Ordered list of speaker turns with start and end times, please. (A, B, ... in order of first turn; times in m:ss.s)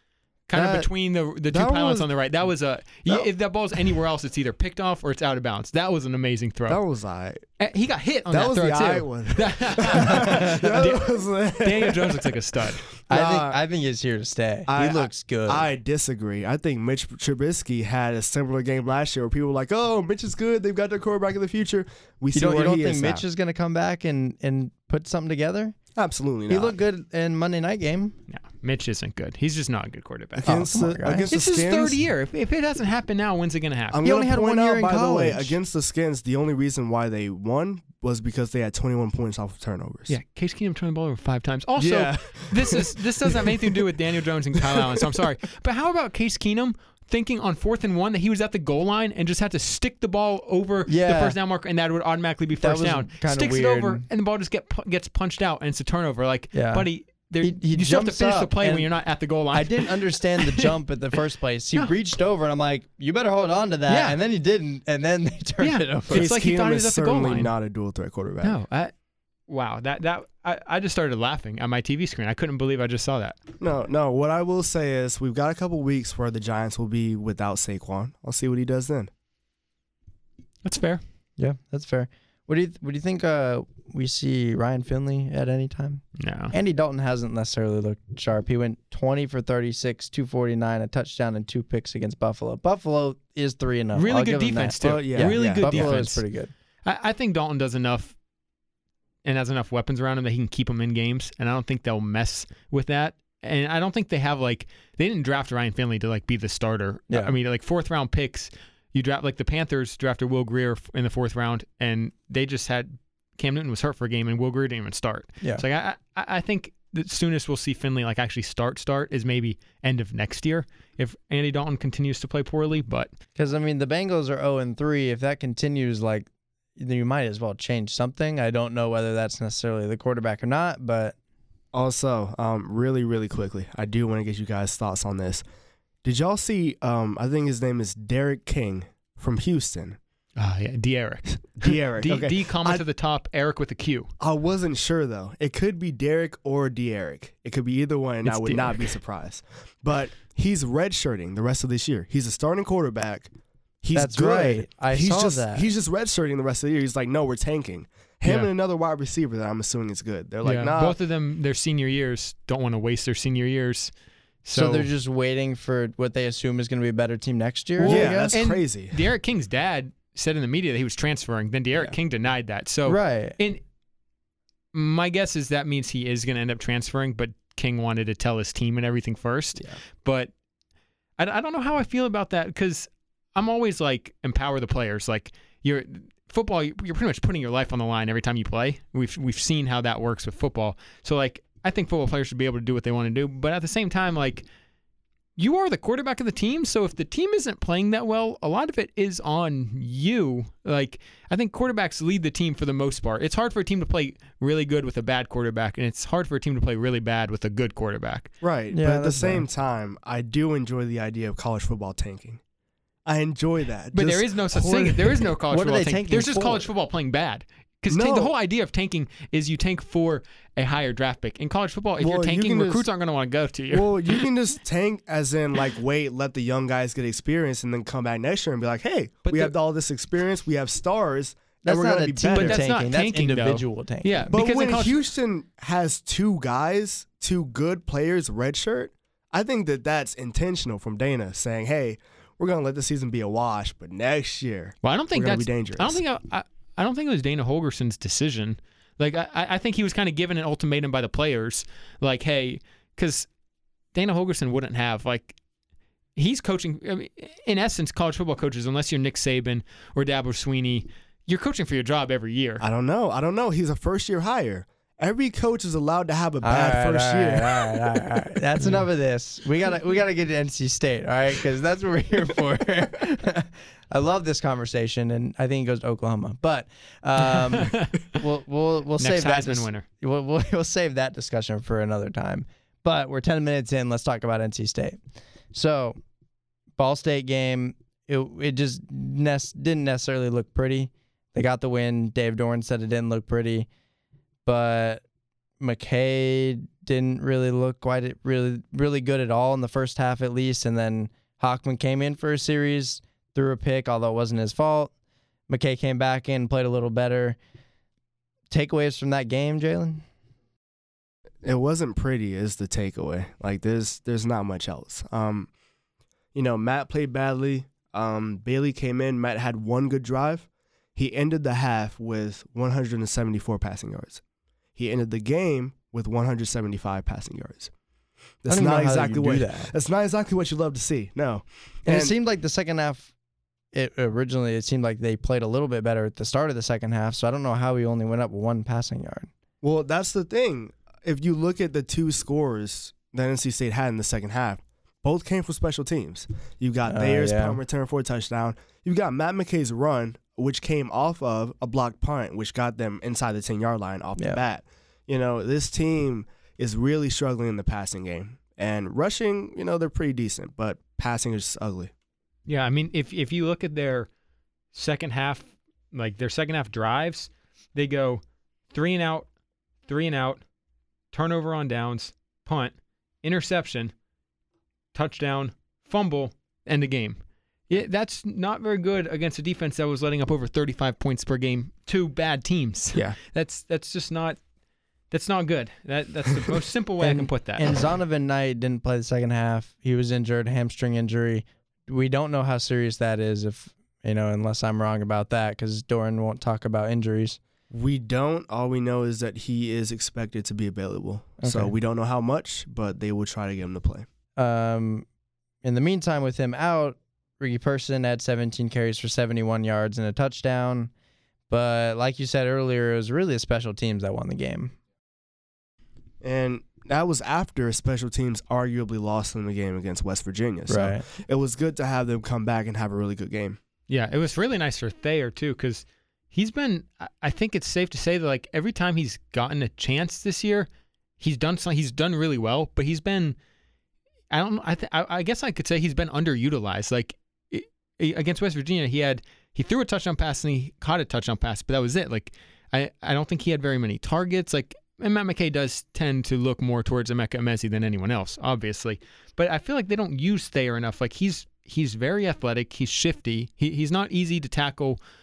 0:00.5-0:06.8 A
0:00.5-0:00.9 B
0:01.5-0:02.1 B
0:06.7-0:07.5 B
0:07.6-0:12.9 A
0:08.3-0:13.6 B
0:13.1-0:15.7 C
0:14.7-0:23.2 B
0:22.3-0:25.8 C
0:26.0-0:26.8 B
0:26.5-0:28.2 C
0:28.3-0:30.6 A
0:30.4-0:32.0 B
0:30.5-0:31.3 C
0:31.3-0:34.0 A
0:33.9-0:40.2 B
0:34.0-0:35.6 C
0:40.1-1:00.7 A
0:41.8-0:44.0 B
0:44.6-0:45.2 B
0:50.9-0:51.4 C
0:52.6-0:54.1 C
0:56.5-0:58.9 C
0:59.5-1:06.3 C
1:03.9-1:04.2 A
1:05.6-1:07.6 A
1:06.1-1:08.6 B
1:08.4-1:08.9 A
1:09.5-1:13.4 A
1:13.6-1:19.1 B
1:20.6-1:21.0 A
1:21.4-1:36.5 C
1:26.2-1:26.5 A
1:34.0-1:36.2 A
1:34.8-1:36.0 B
1:36.8-1:38.2 A
1:39.2-2:03.1 A
2:03.4-2:11.2 C
2:11.7-2:15.4 B
2:16.0-2:20.0 B
2:20.4-2:24.1 A
2:21.6-2:22.8 B
2:24.2-2:33.3 B
2:28.2-2:29.0 A
2:33.8-2:41.0 B
2:33.9-2:35.7 C
2:38.2-2:38.5 A
2:40.4-2:43.9 A
2:44.4-2:44.9 A
2:44.5-2:48.4 C
2:47.8-2:53.6 A
2:47.8-2:49.0 B
2:52.9-2:53.4 C
2:54.7-3:00.3 A
3:01.2-3:14.4 A
3:15.4-3:28.3 A
3:28.4-3:32.4 B
3:28.7-3:29.4 C
3:33.1-3:35.3 B
3:33.9-3:44.3 A
3:35.5-3:36.7 C
3:37.9-3:38.3 B
3:42.0-3:42.9 B
3:43.7-3:52.6 B
3:49.2-3:49.6 A
3:51.6-3:54.2 C
3:52.4-3:55.0 A
3:54.3-4:06.0 B
4:04.8-4:13.3 A
4:13.9-4:15.4 A
4:16.2-4:22.6 A
4:22.6-4:28.2 B
4:26.4-4:45.0 C
4:37.5-4:38.0 A
4:39.0-4:39.8 A
4:45.5-4:46.0 C
4:46.8-4:53.7 C
4:54.4-4:55.0 C
4:55.6-5:04.9 C
5:05.5-5:07.4 C
5:08.5-5:10.0 C
5:11.4-5:15.5 B
5:16.3-5:24.2 B
5:24.8-5:27.7 B
5:28.4-5:32.1 B
5:28.5-5:29.7 C
5:31.8-5:33.1 C
5:33.7-5:39.3 C
5:39.6-6:01.9 B
5:46.9-5:47.6 C
6:02.5-6:04.1 A
6:04.7-6:09.3 A
6:09.9-6:10.4 A
6:11.1-6:14.0 A
6:14.9-6:24.4 A
6:25.1-6:27.7 A
6:27.0-6:37.4 C
6:37.7-6:44.1 B
6:41.4-6:41.7 C
6:44.4-6:45.1 C
6:45.6-6:50.9 C
6:51.5-6:54.8 C
6:56.2-7:03.6 B
7:00.7-7:01.1 C
7:03.9-7:10.7 A
7:11.2-7:13.4 A
7:14.3-7:35.0 A